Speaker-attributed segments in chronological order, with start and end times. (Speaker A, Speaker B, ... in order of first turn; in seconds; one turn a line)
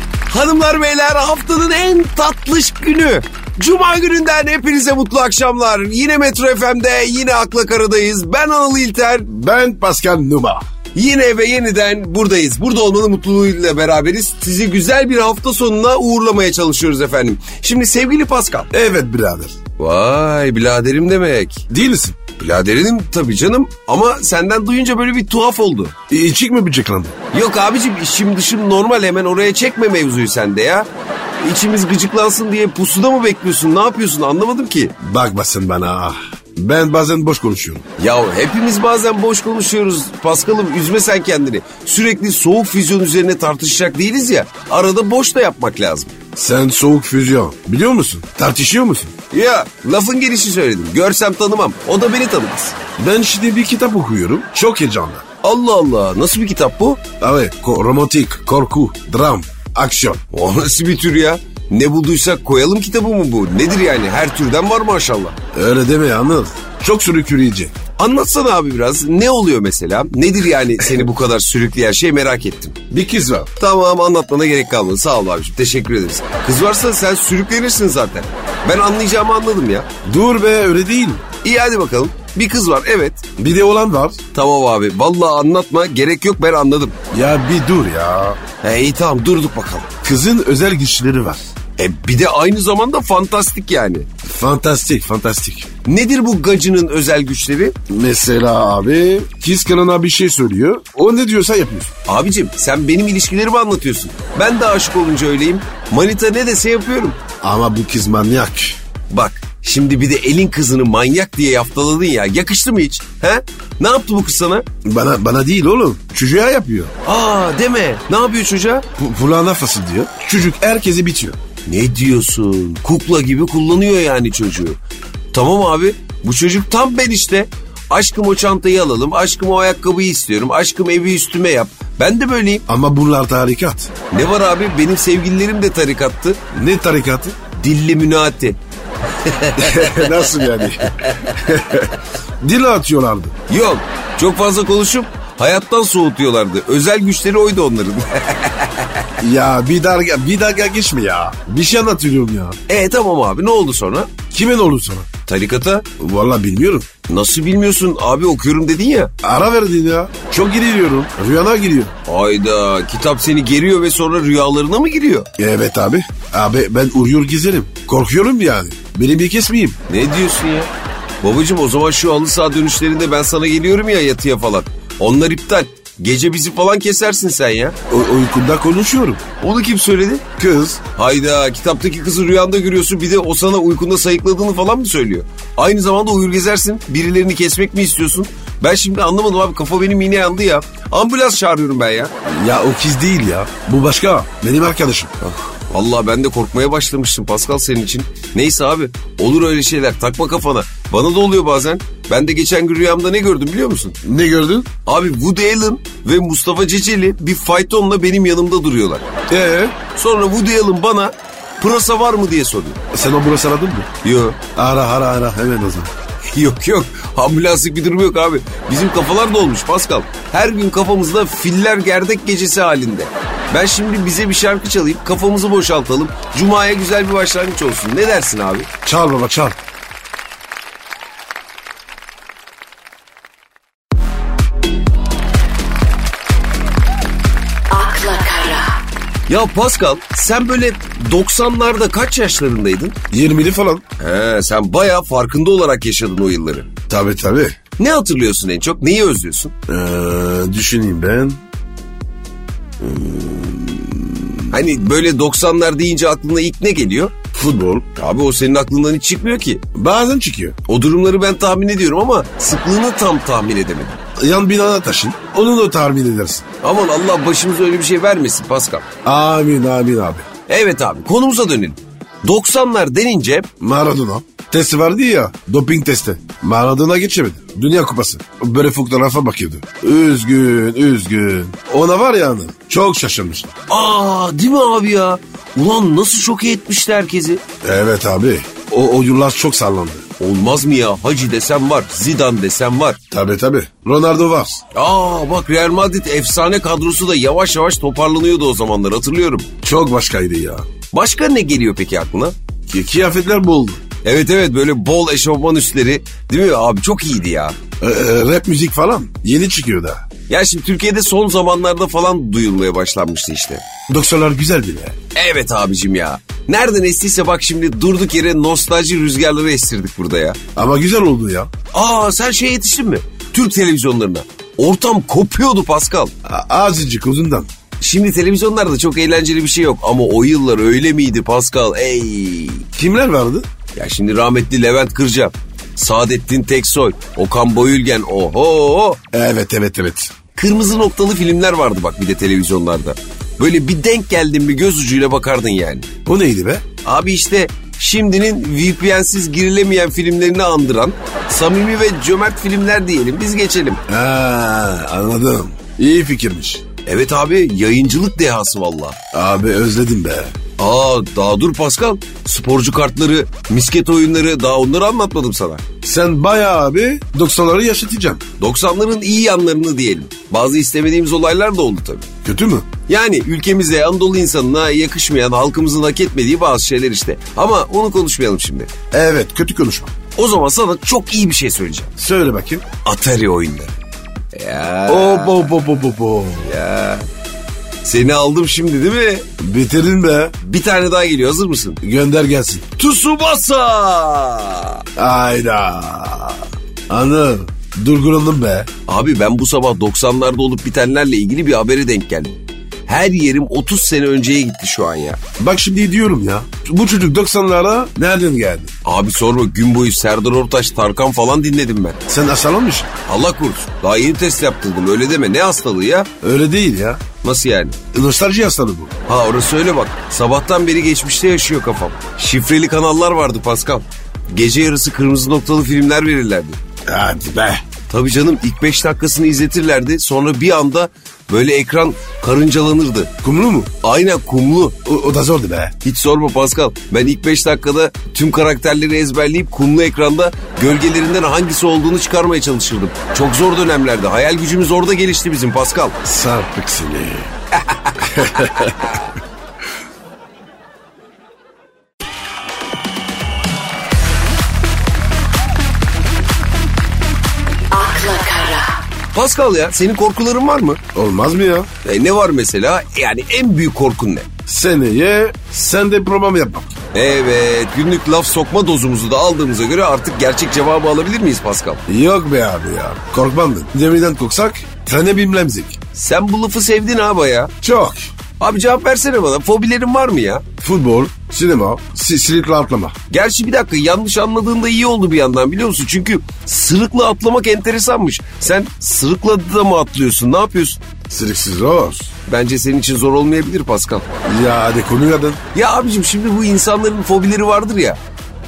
Speaker A: 0.3-9.3
Speaker B: 9.3-10.7
Speaker A: 10.9-18.7
Speaker B: 18.7-19.6
Speaker A: 19.8-21.7
Speaker B: 21.7-22.2
Speaker A: 22.3-26.0
Speaker B: 26.1-27.2
Speaker A: 27.3-34.9
Speaker B: 35.0-37.9
Speaker A: 38.0-46.2
Speaker B: 46.4-49.1
Speaker A: 49.3-52.8
Speaker B: 53.0-55.2
Speaker A: 55.4-57.0
Speaker B: 57.2-60.2
Speaker A: 60.3-65.4
Speaker B: 65.5-67.7
Speaker A: 68.0-72.8
Speaker B: 72.9-73.5
Speaker A: 73.6-79.9
Speaker B: 80.0-81.2
Speaker A: 81.4-83.2
Speaker B: 83.4-84.2
Speaker A: 84.3-87.0
Speaker B: 87.1-88.4
Speaker A: 88.6-89.9
Speaker B: 90.0-91.5
Speaker A: 91.8-94.1
Speaker B: 94.2-95.7
Speaker A: 95.8-97.8
Speaker B: 97.9-101.9
Speaker A: 102.1-107.2
Speaker B: 107.4-108.8
Speaker A: 109.1-114.7
Speaker B: 114.8-116.9
Speaker A: 117.0-118.9
Speaker B: 119.0-121.4
Speaker A: 121.7-124.8
Speaker A: 125.3-132.7
Speaker B: 132.7-133.9
Speaker A: 134.1-136.4
Speaker B: 136.5-137.4
Speaker A: 137.5-138.6
Speaker A: 139.2-140.3
Speaker B: 139.6-143.3
Speaker A: 143.5-149.1
Speaker B: 149.2-152.6
Speaker A: 152.7-154.1
Speaker B: 154.3-155.1
Speaker A: 155.3-155.8
Speaker B: 156.0-156.9
Speaker A: 157.1-159.1
Speaker B: 159.2-161.9
Speaker A: 162.1-165.3
Speaker B: 165.4-169.8
Speaker A: 169.9-170.7
Speaker A: 171.2-177.8
Speaker B: 177.9-179.2
Speaker A: 179.4-180.2
Speaker B: 180.4-180.8
Speaker A: 180.9-192.1
Speaker B: 192.2-195.1
Speaker A: 195.2-204.0
Speaker B: 204.0-204.7
Speaker A: 204.9-209.1
Speaker B: 209.3-209.8
Speaker A: 209.9-212.8
Speaker B: 212.9-213.9
Speaker A: 214.0-214.4
Speaker B: 214.6-215.9
Speaker A: 216.3-228.7
Speaker B: 228.8-229.6
Speaker C: 237.7-238.8
Speaker A: 239.3-243.0
Speaker B: 243.1-243.8
Speaker A: 244.0-246.7
Speaker B: 246.9-247.6
Speaker A: 247.8-249.6
Speaker B: 249.7-251.4
Speaker B: 252.8-254.4
Speaker A: 254.5-257.1
Speaker B: 257.3-257.9
Speaker A: 258.0-259.6
Speaker B: 259.8-260.6
Speaker A: 260.6-264.0
Speaker B: 264.2-266.5
Speaker A: 266.6-268.9
Speaker B: 269.0-270.3
Speaker A: 270.5-273.5
Speaker B: 273.6-283.5
Speaker A: 283.7-287.4
Speaker B: 287.6-290.1
Speaker A: 290.2-293.0
Speaker B: 293.1-294.6
Speaker A: 294.7-299.5
Speaker B: 299.6-300.7
Speaker A: 300.9-302.4
Speaker B: 302.7-303.8
Speaker A: 304.0-307.6
Speaker B: 307.8-310.0
Speaker A: 310.3-313.6
Speaker B: 313.9-315.0
Speaker A: 315.1-320.4
Speaker B: 320.6-321.5
Speaker A: 321.7-326.1
Speaker B: 326.2-327.5
Speaker A: 327.8-332.6
Speaker B: 332.8-333.5
Speaker A: 333.8-339.0
Speaker B: 339.1-340.1
Speaker A: 340.4-345.9
Speaker B: 346.1-346.6
Speaker A: 346.8-353.8
Speaker B: 353.9-356.6
Speaker A: 356.9-359.0
Speaker B: 359.1-360.4
Speaker A: 360.6-365.6
Speaker B: 365.8-368.2
Speaker A: 368.4-372.1
Speaker B: 372.2-372.7
Speaker A: 372.9-378.7
Speaker B: 378.9-379.9
Speaker A: 380.2-381.9
Speaker B: 382.0-382.7
Speaker A: 382.8-383.8
Speaker A: 384.3-385.5
Speaker B: 384.9-386.6
Speaker A: 386.4-387.1
Speaker A: 387.8-389.3
Speaker B: 389.4-390.4
Speaker A: 390.4-391.8
Speaker B: 391.8-392.7
Speaker A: 392.8-394.8
Speaker B: 395.0-398.7
Speaker A: 398.9-405.2
Speaker B: 405.4-408.7
Speaker A: 408.9-412.0
Speaker B: 412.1-412.9
Speaker A: 413.1-416.1
Speaker B: 416.2-417.0
Speaker A: 417.2-417.8
Speaker B: 417.9-418.9
Speaker A: 419.1-426.6
Speaker B: 426.9-427.6
Speaker A: 427.9-433.1
Speaker B: 433.2-433.7
Speaker A: 433.8-434.8
Speaker B: 434.9-435.8
Speaker A: 435.8-446.0
Speaker B: 446.0-447.3
Speaker A: 447.7-448.9
Speaker B: 448.0-449.0
Speaker C: 457.7-458.8
Speaker A: 459.1-460.8
Speaker B: 460.9-461.7
Speaker A: 461.8-464.3
Speaker B: 464.5-466.7
Speaker A: 466.9-471.8
Speaker B: 471.9-475.8
Speaker A: 475.9-477.5
Speaker B: 477.6-478.1
Speaker A: 478.4-480.5
Speaker B: 480.6-482.9
Speaker A: 483.1-490.8
Speaker B: 491.1-492.1
Speaker A: 492.3-494.1
Speaker B: 494.2-495.4
Speaker A: 495.5-498.0